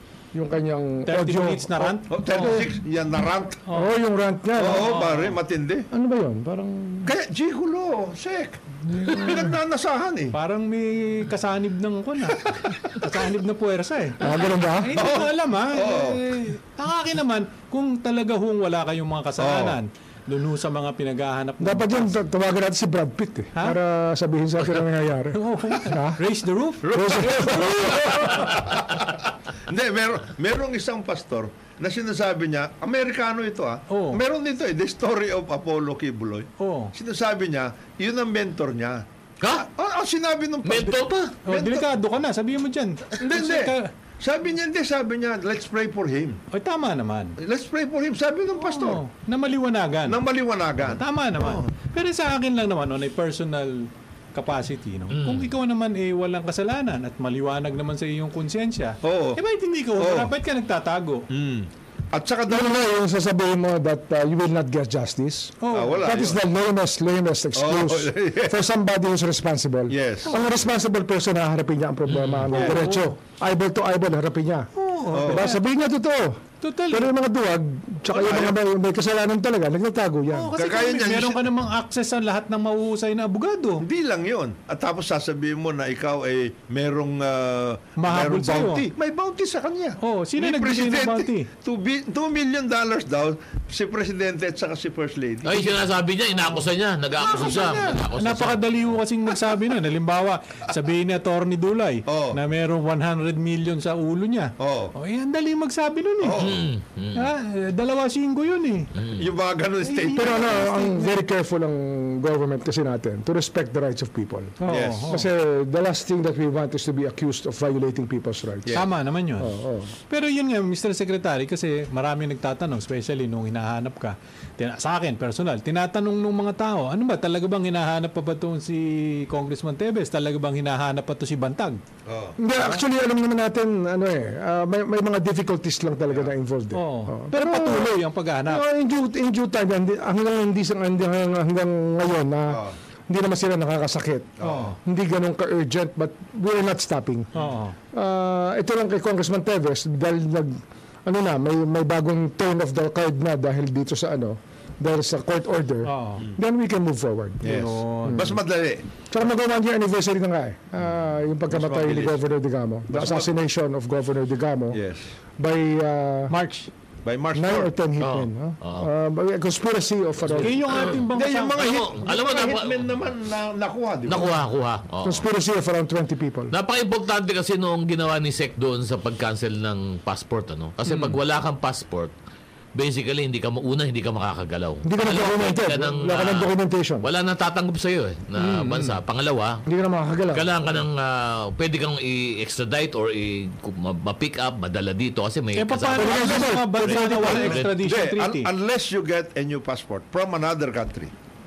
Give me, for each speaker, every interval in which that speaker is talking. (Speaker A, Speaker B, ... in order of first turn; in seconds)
Speaker A: 0.3-2.7, 3.7-5.1, 5.9-7.1, 8.9-9.5, 14.2-15.1, 21.6-28.3, 62.5-80.5, 110.1-118.8, 119.4-119.9, 132.4-147.3, 147.9-150.6, 151.1-158.4, 159.1-164.8, 165.4-166.3, 167.3-170.8, 175.0-176.5, 184.8-187.1, 189.7-190.5, 195.9-197.6
Speaker B: 1.0-2.6, 3.7-4.0, 4.6-5.4, 10.3-22.1, 25.3-28.4, 33.9-34.2, 36.6-36.9, 41.5-43.9, 46.5-47.4, 48.6-50.2, 50.9-61.3, 65.6-66.2, 72.3-73.1, 74.8-75.6, 76.6-77.1, 80.3-83.8, 88.0-88.9, 90.0-91.5, 97.2-106.5, 107.1-108.9, 109.8-111.2, 114.6-115.3, 118.8-119.5, 120.1-131.8, 136.7-138.6, 144.4-144.8, 147.3-147.8, 155.8-156.3, 157.4-158.3, 166.3-166.7, 170.4-171.7, 180.9-181.2, 188.4-189.0, 195.6-198.5
Speaker C: 2.1-3.6, 4.6-5.9, 7.0-10.4, 12.3-12.8, 14.9-16.2, 19.4-19.8, 26.8-39.0, 39.6-41.9, 43.2-46.4, 47.4-49.0, 50.1-51.7, 59.0-59.4, 60.0-60.3, 61.3-62.8, 65.7-66.4, 67.6-68.6, 69.9-70.4, 72.5-72.8, 75.1-75.5, 78.1-78.6, 80.5-81.5, 83.8-95.8, 102.1-102.4, 104.6-104.9, 106.2-106.7, 109.1-110.5, 114.7-115.2, 132.1-132.4, 142.5-142.8, 144.4-144.7, 157.4-158.9, 161.5-162.2, 162.9-163.3, 164.7-165.0, 167.1-167.7, 170.2-174.3, 197.4-201.1
Speaker D: 39.4-39.7, 40.6-41.3, 55.1-55.5, 95.4-98.9, 106.4-107.3, 109.0-109.2, 168.0-168.9, 171.6-172.9, 174.1-175.2, 176.5-182.1, 182.8-189.6, 190.3-197.7